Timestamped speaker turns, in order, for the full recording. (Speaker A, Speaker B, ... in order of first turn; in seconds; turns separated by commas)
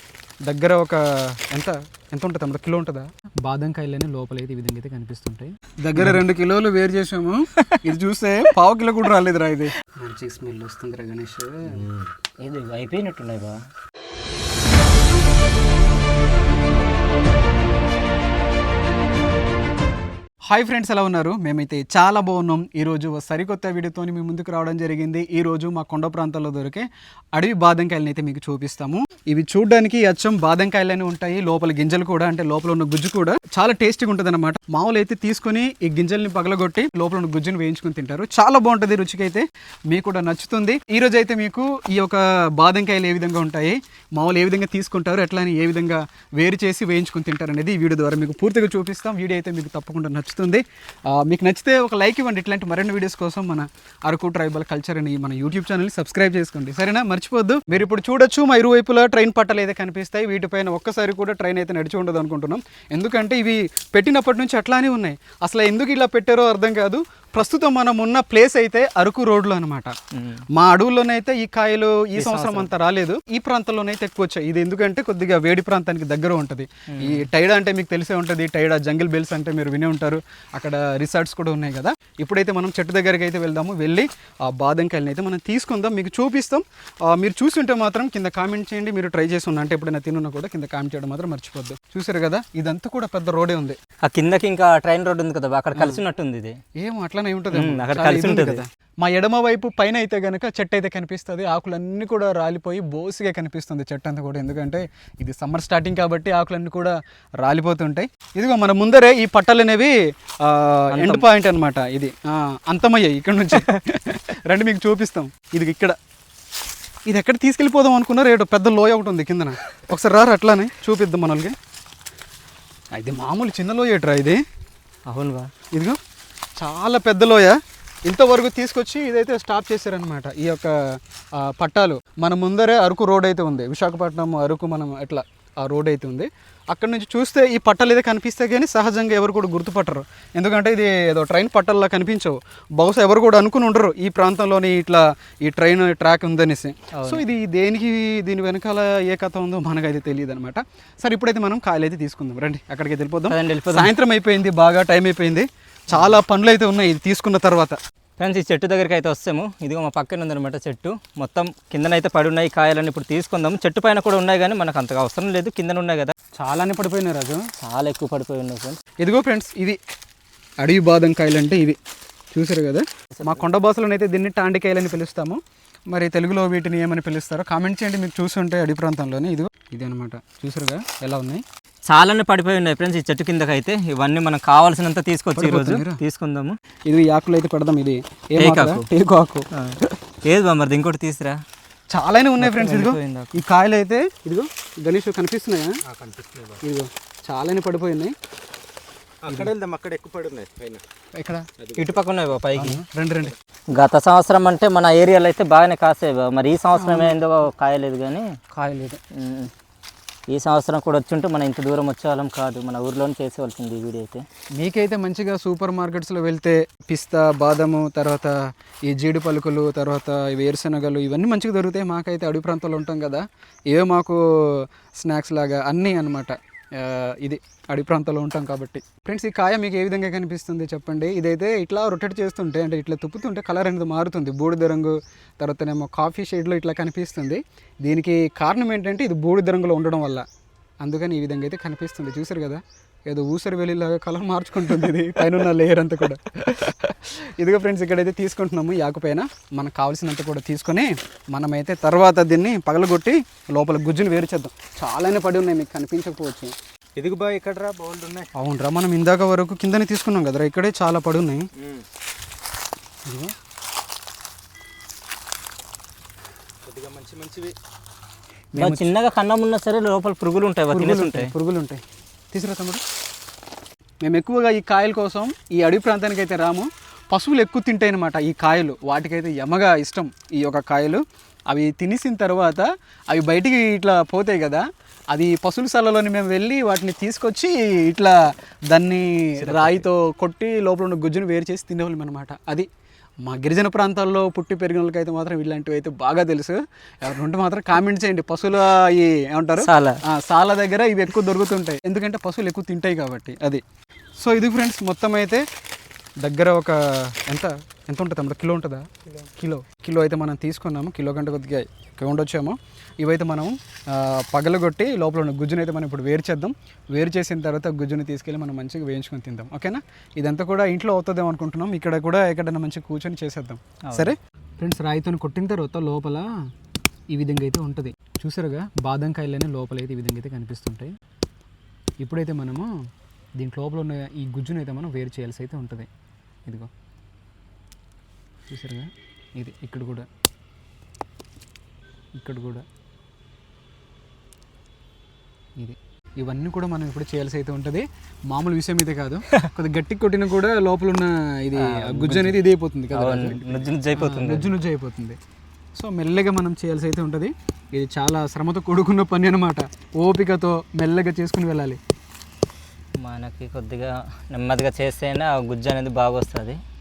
Speaker A: 0.5-11.8, Speaker B: 11.7-12.1, Speaker C: 12.4-13.5, Speaker A: 20.5-69.9, Speaker C: 70.1-70.4, Speaker A: 70.5-93.8, Speaker C: 72.2-72.7, Speaker C: 76.9-77.3, Speaker C: 94.0-96.5, Speaker A: 95.8-96.0, Speaker A: 96.8-115.9, Speaker C: 97.5-98.6, Speaker C: 110.9-111.2, Speaker A: 117.0-121.5, Speaker A: 122.9-124.4, Speaker C: 125.1-125.5, Speaker A: 125.7-126.0, Speaker A: 126.6-127.5, Speaker A: 128.1-130.7, Speaker A: 131.4-157.8, Speaker C: 146.9-147.2, Speaker C: 153.3-153.9, Speaker C: 155.9-156.2, Speaker C: 158.2-166.1, Speaker A: 166.4-167.4, Speaker C: 167.6-168.8, Speaker A: 169.0-169.8, Speaker A: 170.6-171.8, Speaker A: 172.3-175.4, Speaker C: 173.2-173.4, Speaker A: 175.9-181.4, Speaker C: 181.9-186.6, Speaker A: 185.3-186.0, Speaker A: 186.8-189.4, Speaker C: 188.4-188.8, Speaker C: 189.5-191.4, Speaker A: 191.9-195.7, Speaker C: 192.4-193.4, Speaker B: 195.8-196.6, Speaker A: 196.6-198.1, Speaker B: 199.2-200.8, Speaker A: 201.2-201.4, Speaker B: 201.6-202.0, Speaker C: 201.8-202.8, Speaker A: 202.6-203.3, Speaker C: 203.7-208.2, Speaker A: 206.7-207.2, Speaker A: 208.5-209.0, Speaker C: 209.2-209.5, Speaker C: 210.3-214.2, Speaker A: 214.6-240.2, Speaker A: 240.8-256.5, Speaker B: 257.0-258.3, Speaker A: 258.4-261.4, Speaker B: 261.6-261.8, Speaker A: 263.1-263.3, Speaker B: 266.6-267.5, Speaker A: 268.5-268.9, Speaker C: 268.6-271.3, Speaker A: 270.7-272.8, Speaker A: 274.0-292.6, Speaker C: 289.4-289.8, Speaker A: 293.2-303.6, Speaker C: 299.6-300.0, Speaker A: 304.2-305.4, Speaker A: 306.2-308.8, Speaker A: 309.4-326.3, Speaker C: 323.8-324.1, Speaker A: 327.1-330.9, Speaker A: 332.0-332.7, Speaker A: 333.4-335.9, Speaker A: 338.5-340.1, Speaker A: 342.1-342.6, Speaker A: 345.6-355.2, Speaker C: 351.6-354.6, Speaker A: 355.7-361.8, Speaker C: 363.0-366.6